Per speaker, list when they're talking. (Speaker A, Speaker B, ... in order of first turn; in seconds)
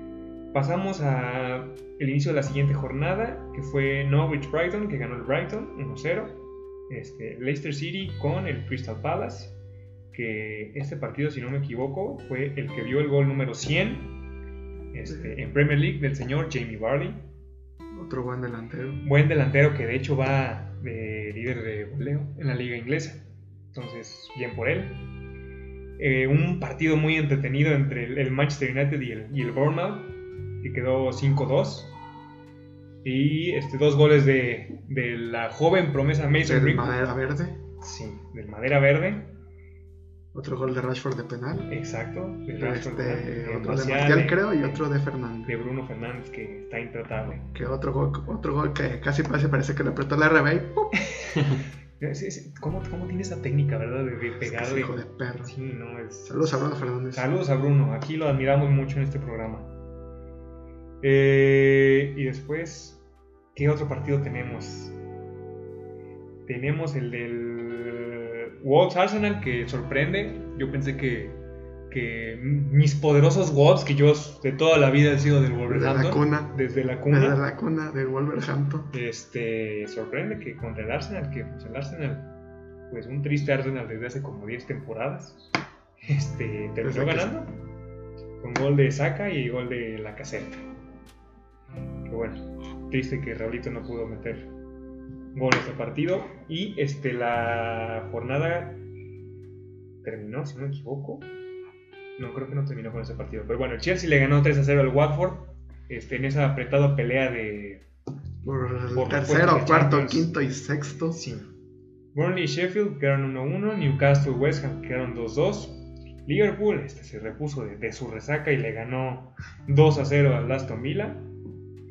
Speaker A: 0.5-9.5, 10.1-14.1, 14.9-17.2, 19.0-25.0, 26.0-31.9, 33.0-36.9, 37.8-39.3, 41.7-44.8, 45.5-47.5, 52.0-59.7, 61.0-63.0, 63.5-65.0, 66.5-71.3, 71.9-77.4, 78.9-82.3, 82.9-85.4, 86.0-87.5, 88.4-90.6, 92.1-94.5, 95.3-98.8, 100.0-101.3, 102.2-107.8, 108.9-110.3, 111.1-111.5, 112.1-121.2
Speaker B: 17.9-19.0, 36.4-37.6, 40.3-41.7, 42.6-45.5, 47.5-50.9, 54.4-55.5, 56.2-57.3, 75.7-76.5, 77.1-78.9, 86.8-87.3, 108.4-111.2